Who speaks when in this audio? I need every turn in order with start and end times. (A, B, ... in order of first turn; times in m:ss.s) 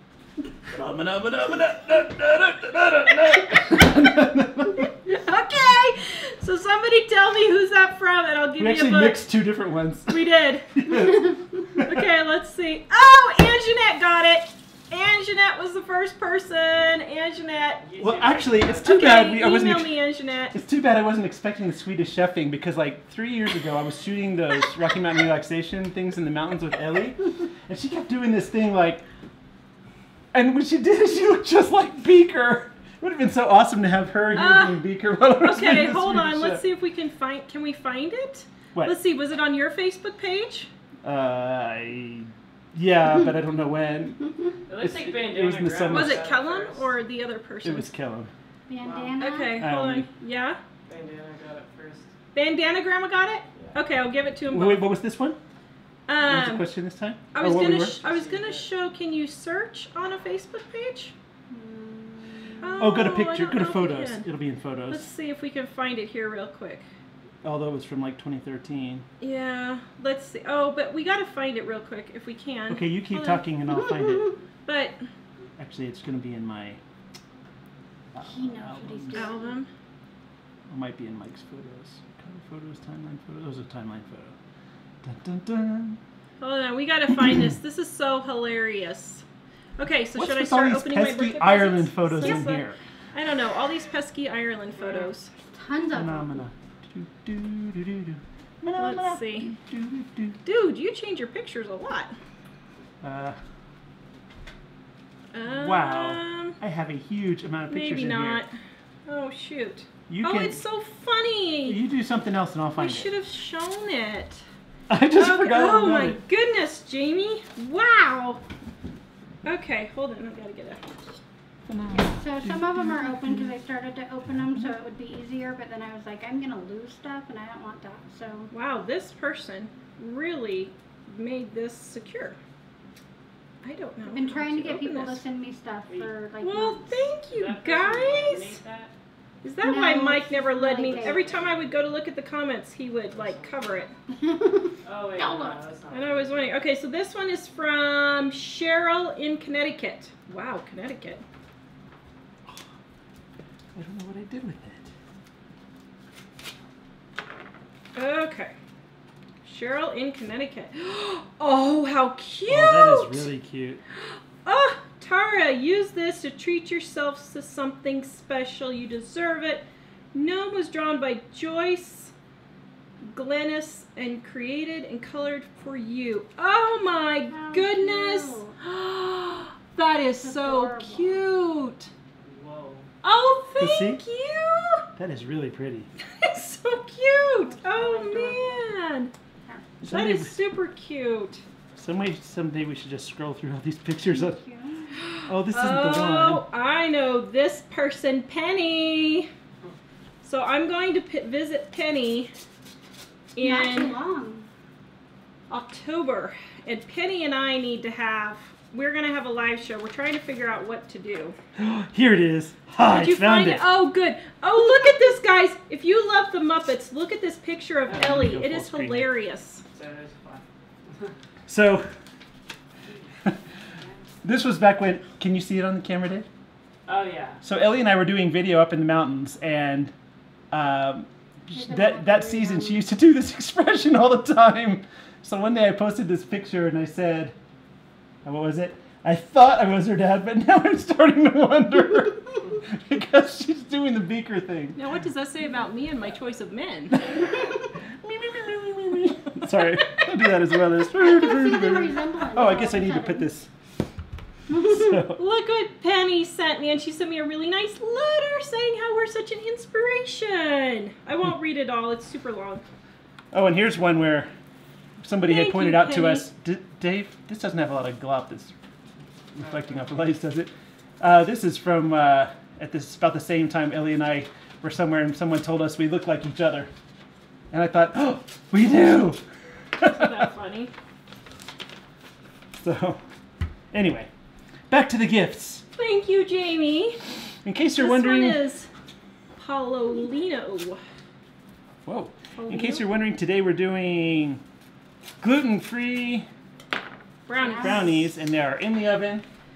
0:00.7-0:04.9 A
0:05.1-0:09.2 B
0:08.6-0:10.2 A
0:10.1-0:11.0 B
0:10.7-0:12.0 A
0:11.8-0:17.8 B
0:17.8-0:18.9 C
0:18.0-0:20.0 A
0:18.8-0:20.6 B
0:20.5-0:29.0 A
0:30.3-0:36.6 A
0:34.3-0:34.8 B
0:35.4-0:40.7 B
0:41.0-0:46.3 A
0:44.7-0:46.9 C
0:45.9-0:47.9 B
0:47.6-0:48.3 A
0:48.7-0:49.6 D
0:48.8-0:49.2 C
0:49.2-0:50.6 B
0:49.6-0:50.1 A
0:50.9-0:52.1 C
0:52.3-0:54.9 B
0:54.5-0:55.4 A
0:56.1-0:56.7 B
0:56.2-0:58.0 A
0:57.3-1:01.1 B
0:58.0-0:58.6 C
1:01.5-1:02.8 D
1:02.6-1:04.3 B
1:02.8-1:05.1 A
1:04.9-1:06.8 B
1:07.4-1:09.0 A
1:09.2-1:13.4 B
1:12.7-1:14.3 A
1:14.6-1:15.0 B
1:15.6-1:16.8 A
1:18.1-1:19.3 A
1:18.2-1:19.5 D
1:19.1-1:19.7 B
1:20.7-1:24.3 A
1:25.0-1:26.0 A
1:26.4-1:29.2 B
1:29.8-1:35.3 B
1:30.1-1:32.8 A
1:34.7-1:35.1 C
1:35.5-1:36.4 D
1:35.9-1:40.4 A
1:38.8-1:39.5 B
1:40.4-1:42.2 B
1:43.0-1:43.4 A
1:45.3-1:46.6 B
1:45.4-1:48.4 A
1:47.7-1:48.5 B
1:49.1-1:51.8 B
1:50.1-1:50.6 A
1:51.6-1:53.1 A
1:52.8-1:54.4 B
1:54.9-1:56.2 A
1:55.1-1:58.4 B
1:59.4-2:00.9 B
2:01.7-2:03.5 A
2:01.9-2:08.5 D
2:08.5-2:12.4 B
2:13.6-2:15.2 B
2:14.0-2:17.1 D
2:16.4-2:18.6 B
2:17.3-2:18.9 C
2:19.4-2:23.9 B
2:19.6-2:21.3 D
2:20.7-2:21.8 C
2:23.1-2:23.9 C
2:24.1-2:25.6 D
2:24.8-2:26.5 C
2:25.9-2:31.2 B
2:33.8-2:34.9 A
2:37.9-2:38.5 B
2:39.4-2:43.3 B
2:42.5-2:43.8 A
2:44.4-2:52.1 B
2:53.1-3:01.9 B
2:57.3-2:58.5 D
3:00.2-3:01.2 D
3:02.2-3:02.9 C
3:03.0-3:04.8 B
3:03.6-3:04.0 A
3:05.0-3:05.9 A
3:06.1-3:09.1 B
3:07.4-3:08.7 D
3:09.8-3:10.4 A
3:09.9-3:11.4 B
3:11.7-3:14.4 A
3:14.1-3:14.9 D
3:14.9-3:19.3 B
3:15.2-3:16.4 A
3:20.2-3:22.3 B
3:23.3-3:23.9 B
3:23.4-3:24.5 D
3:25.5-3:31.4 B
3:31.6-3:33.7 A
3:32.8-3:39.6 B
3:37.9-3:39.1 A
3:39.7-3:41.1 C
3:41.5-3:41.9 A
3:44.2-3:46.3 A
3:46.8-3:47.4 C
3:47.4-3:49.9 A
3:50.5-3:57.3 A
3:51.5-3:52.8 D
3:58.2-4:04.8 A
4:04.8-4:07.0 B
4:08.0-4:13.5 A
4:11.0-4:13.3 D
4:14.5-4:14.9 D
4:14.6-4:15.2 A
4:15.2-4:22.6 B
4:23.3-4:24.3 A
4:25.0-4:28.5 A
4:25.2-4:26.2 B
4:29.3-4:36.7 A
4:29.4-4:29.8 C
4:37.5-4:39.2 A
4:39.8-4:40.1 A
4:39.9-4:40.7 B
4:42.6-4:43.0 A
4:43.7-4:44.1 A
4:44.7-4:45.6 A
4:45.8-4:47.0 B
4:47.4-4:48.4 A
4:47.8-4:48.7 B
4:49.4-4:50.8 B
4:51.8-4:54.4 A
4:52.4-4:52.8 B
4:55.2-4:56.3 A
4:57.3-4:58.0 B
4:57.4-4:57.9 D
4:57.4-4:59.2 A